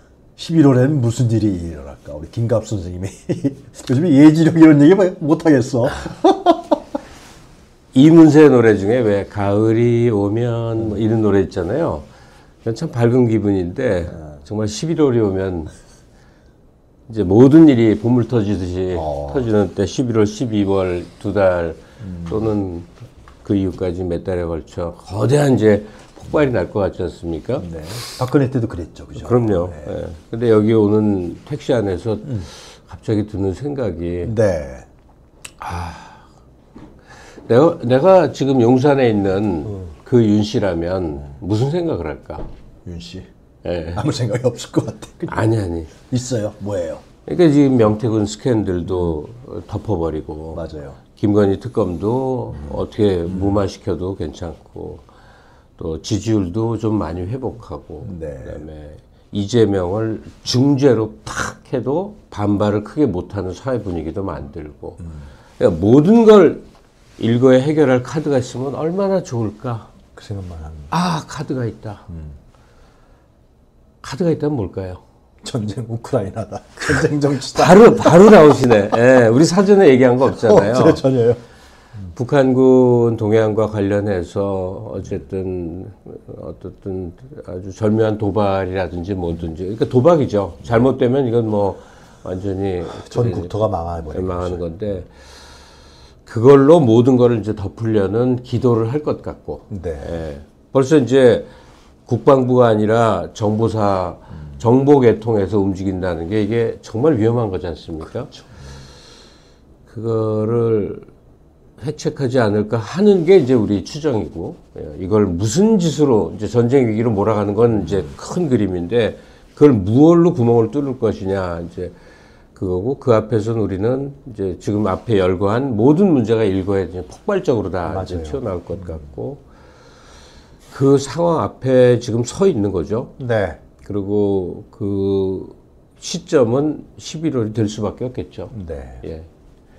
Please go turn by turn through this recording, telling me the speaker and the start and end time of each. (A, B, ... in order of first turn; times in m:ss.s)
0:00.4-0:06.8 A
0:07.9-0:12.0 B
0:12.6-0:15.7 B
0:17.1-0:22.9 B
0:18.9-0:19.4 A
0:22.0-0:22.3 A
0:23.4-0:27.7 B
0:27.6-0:29.9 A
0:29.2-0:34.3 B
0:34.2-0:34.8 A
0:35.6-0:36.2 B
0:37.5-0:42.4 B
0:42.8-0:43.3 A
0:43.6-0:44.0 B
0:43.9-0:45.4 A
0:45.3-0:45.9 B
0:46.0-0:47.0 A
0:47.3-0:55.0 B
0:50.5-0:51.0 A
0:55.8-1:06.6 B
0:58.0-0:58.6 A
1:07.2-1:09.9 B
1:10.2-1:10.9 A
1:10.9-1:12.1 B
1:14.0-1:15.0 B
1:15.4-1:18.6 A
1:16.9-1:21.0 B
1:20.3-1:21.4 A
1:22.1-1:33.5 B
1:32.9-1:34.6 A
1:34.1-1:35.1 B
1:36.2-1:41.5 B
1:39.7-1:40.2 A
1:42.0-1:48.3 B
1:49.9-1:51.0 B
1:51.8-2:01.9 B
2:02.5-2:09.4 B
2:07.9-2:08.4 A
2:10.7-2:13.1 B
2:13.2-2:13.6 A
2:13.8-2:19.3 B
2:18.5-2:19.0 A